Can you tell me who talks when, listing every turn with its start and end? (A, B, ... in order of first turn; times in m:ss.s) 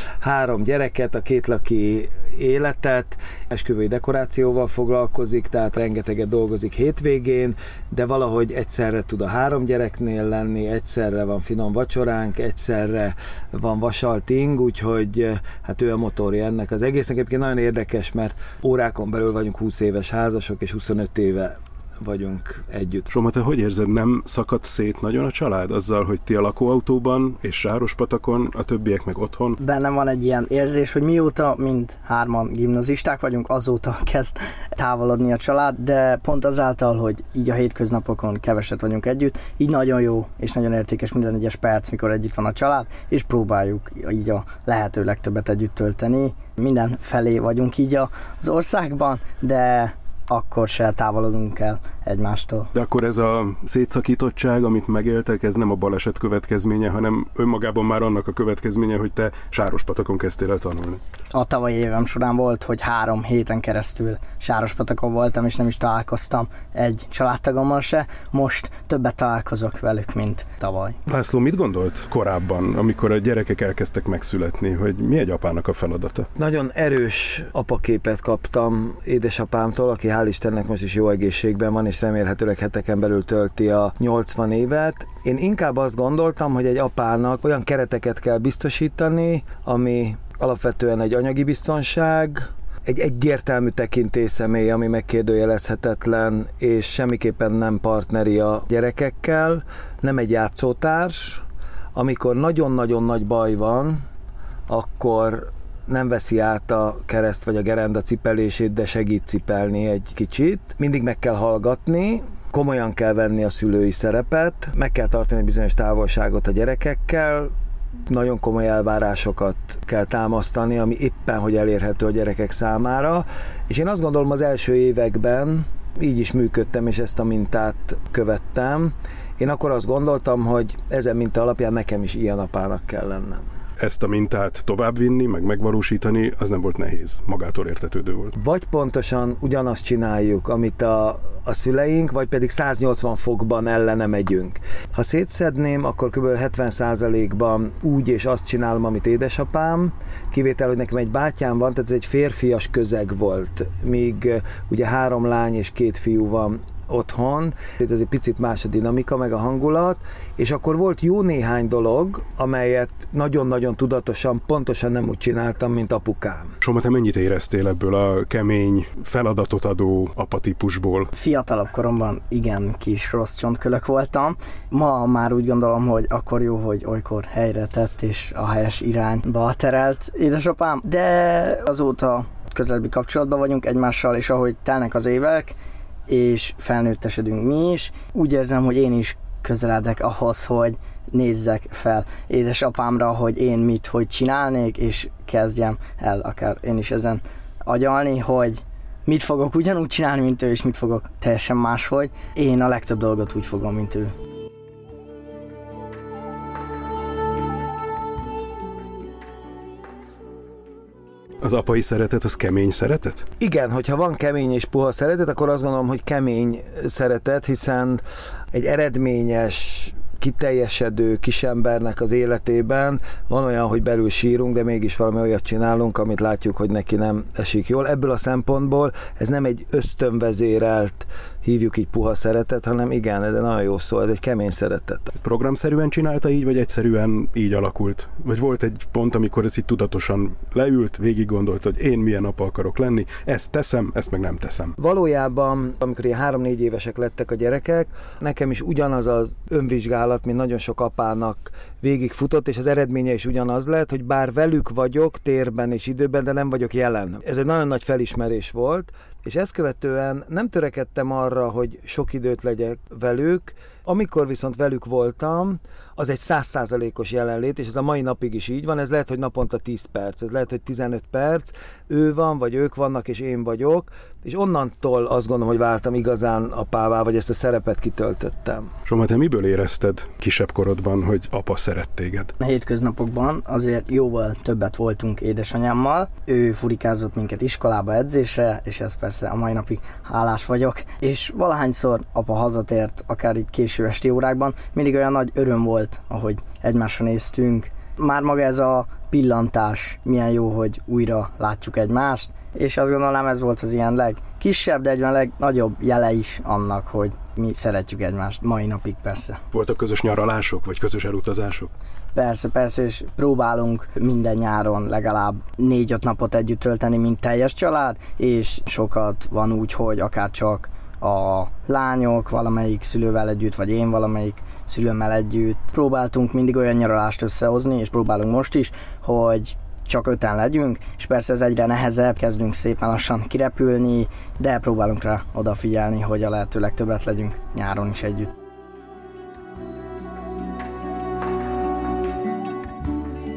0:00.2-0:23.1 A
0:23.1-0:29.6 B
0:29.6-0:52.7 C
0:52.7-1:01.0 B
1:01.3-1:11.0 C
1:11.1-1:16.3 B
1:16.4-1:44.0 A
1:44.7-1:57.5 A
1:58.1-2:13.4 A
2:13.8-2:18.3 B
2:18.4-2:46.6 A
2:46.6-2:51.1 B
2:51.2-3:05.6 C
3:06.1-3:24.1 C
3:31.4-3:33.2 B
3:33.4-3:55.1 A
3:55.2-4:04.8 B
4:04.8-4:38.7 A
4:38.9-4:42.3 B
4:42.4-5:09.4 C
5:09.5-5:11.7 B
5:12.1-5:38.3 C